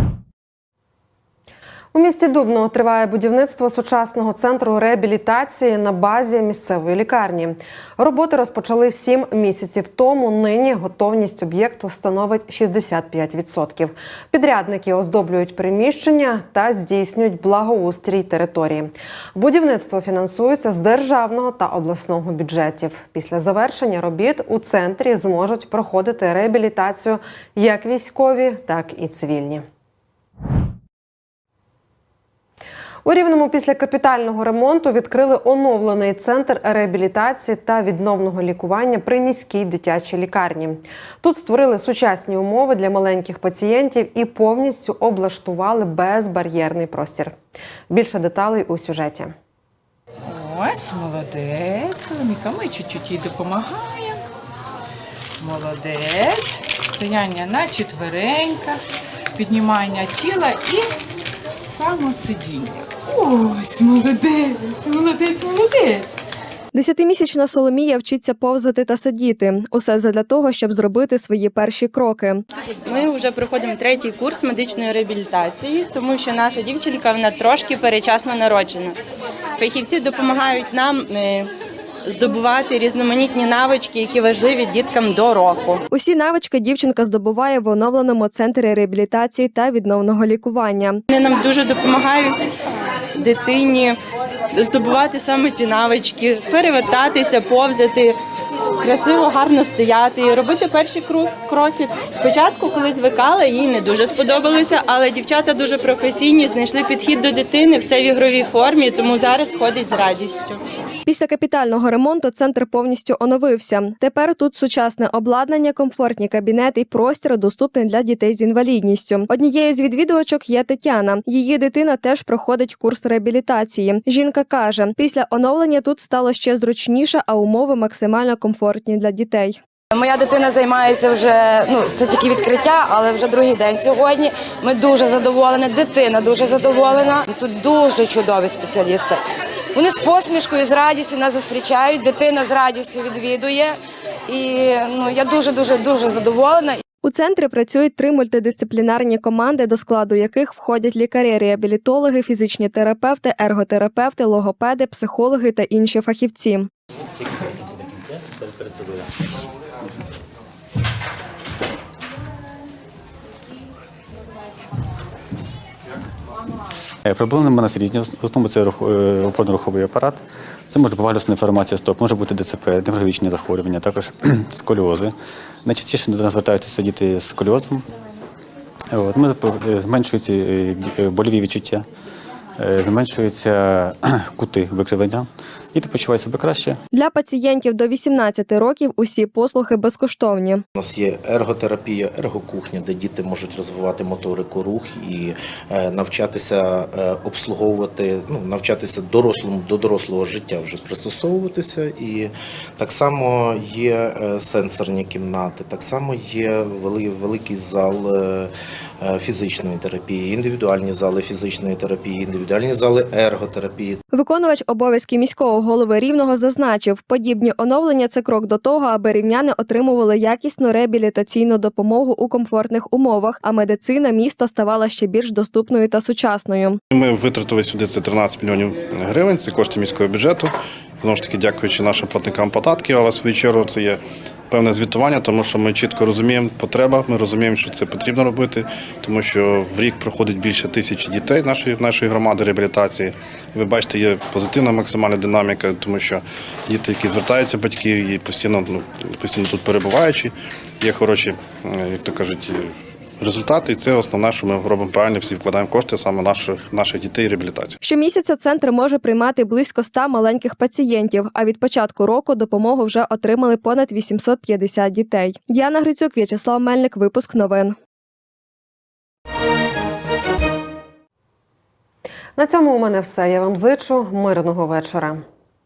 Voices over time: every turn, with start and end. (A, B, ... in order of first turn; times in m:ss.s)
0:01.9-0:29.6 A
0:33.0-0:47.4 A
0:47.9-0:49.3 A
0:50.3-0:54.2 B
0:55.4-0:58.8 B
0:59.4-1:00.9 B
1:01.7-1:06.0 B
1:06.7-1:12.4 C
1:12.8-1:19.0 D
1:19.6-1:21.5 D
1:22.0-1:25.8 D
1:25.9-1:31.0 C
1:31.1-1:32.4 D
1:33.2-1:34.0 D
1:34.5-1:38.2 D
1:38.8-1:50.6 D
1:51.1-2:09.6 C
2:09.9-2:19.2 E
2:19.7-2:26.8 E
2:27.0-2:36.7 C
2:47.0-2:57.8 F
2:58.9-3:01.9 F
3:02.6-3:06.8 F
3:06.9-3:10.6 C
3:10.8-3:34.0 G
3:34.1-3:46.8 C
3:46.9-3:50.5 H
3:51.0-3:54.0 H
3:54.5-4:12.6 H
4:13.2-4:17.8 H
4:17.8-4:27.8 C
4:32.4-4:35.2 A